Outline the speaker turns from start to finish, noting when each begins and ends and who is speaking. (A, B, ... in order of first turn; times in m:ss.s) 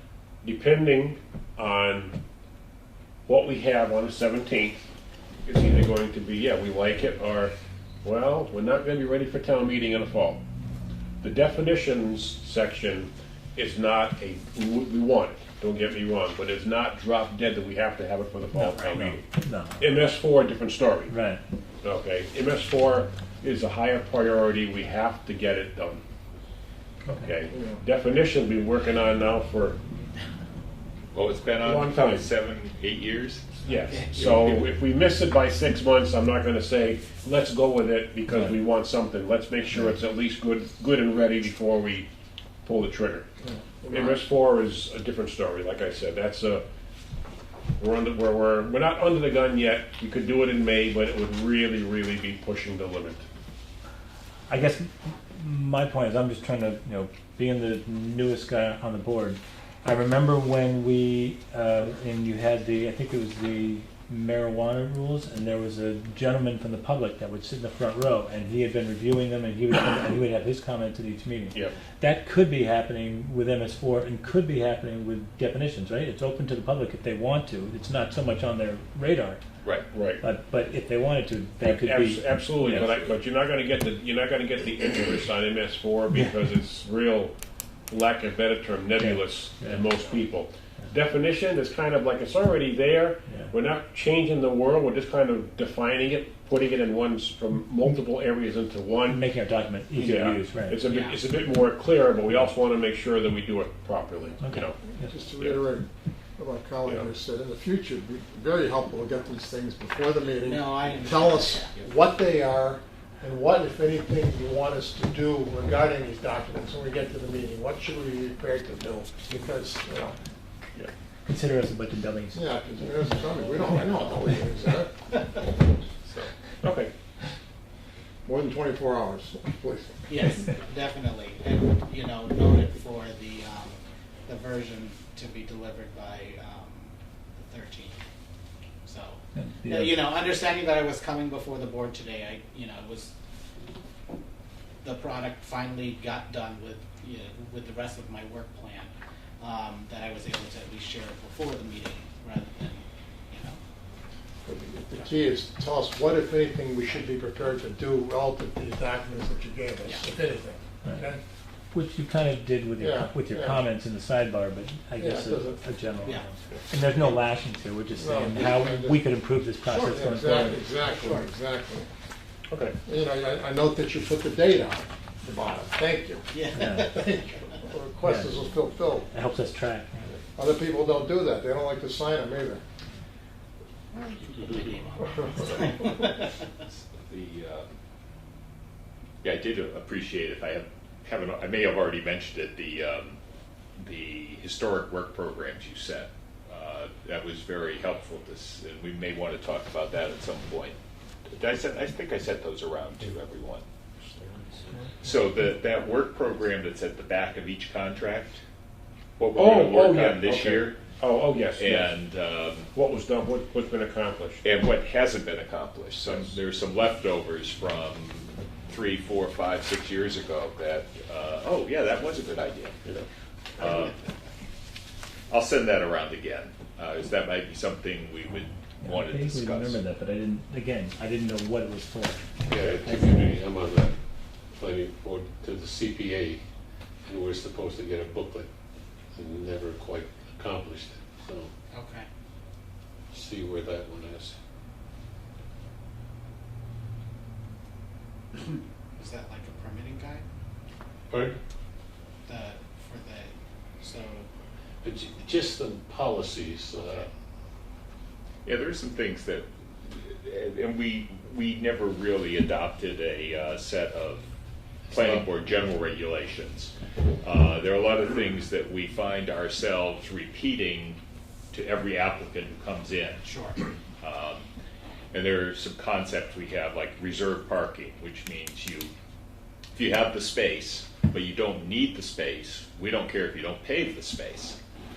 0:00.4-0:02.2 A
0:03.3-0:04.9 A
0:05.5-0:10.4 A
0:11.2-0:19.2 A
0:18.5-0:20.0 B
0:18.7-0:19.1 C
0:19.8-0:21.1 A
0:21.1-0:21.4 B
0:21.8-0:26.0 A
0:27.1-0:27.3 B
0:27.2-0:29.8 A
0:27.5-0:27.8 D
0:31.1-0:34.6 E
0:31.6-0:32.2 A
0:33.7-0:42.1 A
0:33.7-0:34.2 C
0:42.6-0:43.3 A
0:43.4-0:44.2 D
0:43.9-0:46.6 A
0:47.8-0:53.2 A
0:54.5-1:19.4 B
1:19.9-1:20.2 A
1:20.2-1:23.0 B
1:21.6-1:27.3 A
1:26.1-1:26.4 B
1:27.9-1:39.2 A
1:29.0-1:29.9 B
1:33.3-1:33.5 B
1:39.1-1:40.8 B
1:40.0-1:44.8 A
1:40.9-1:41.2 C
1:44.4-1:45.1 B
1:45.1-2:00.2 D
1:50.4-1:51.9 C
2:01.3-2:02.4 B
2:02.3-2:04.9 D
2:03.2-2:04.4 C
2:06.6-2:06.9 A
2:08.2-2:10.4 D
2:10.1-2:18.0 C
2:18.8-2:23.1 C
2:19.4-2:20.0 B
2:24.8-2:33.6 C
2:34.4-2:41.2 D
2:41.7-2:50.7 B
2:42.8-2:43.6 D
2:45.0-2:45.6 D
2:48.0-2:49.0 D
2:49.6-2:51.9 D
2:50.8-2:51.3 C
2:52.5-2:52.8 A
2:52.8-2:59.1 D
2:56.3-2:57.4 C
2:56.5-2:57.0 B
2:58.0-2:58.4 B
2:59.1-3:00.1 B
3:00.4-3:02.6 D
3:04.1-3:06.3 C
3:05.0-3:06.0 D
3:06.7-3:07.8 E
3:09.2-3:13.2 E
3:13.8-3:20.8 E
3:21.3-3:23.6 E
3:25.0-3:28.4 E
3:29.2-3:30.8 E
3:29.4-3:32.0 A
3:31.6-3:32.7 E
3:32.7-3:34.4 A
3:34.4-3:42.8 E
3:36.1-3:36.3 A
3:43.6-3:44.0 E
3:45.3-3:49.8 E
3:48.8-3:53.1 B
3:52.5-3:53.9 F
3:52.6-3:52.9 A
3:54.6-3:56.4 F
3:57.1-3:58.5 F
3:59.2-4:01.5 F
4:01.7-4:02.1 C
4:03.1-4:04.3 F
4:09.0-4:10.3 C
4:11.1-4:11.4 F
4:12.3-4:14.3 C
4:14.8-4:17.1 F
4:18.4-4:24.3 E
4:24.9-4:25.2 F
4:24.9-4:31.0 E
4:31.5-4:33.2 E
4:33.2-4:33.6 C
4:34.0-4:34.5 E
4:35.1-4:38.9 E
4:39.8-4:44.6 E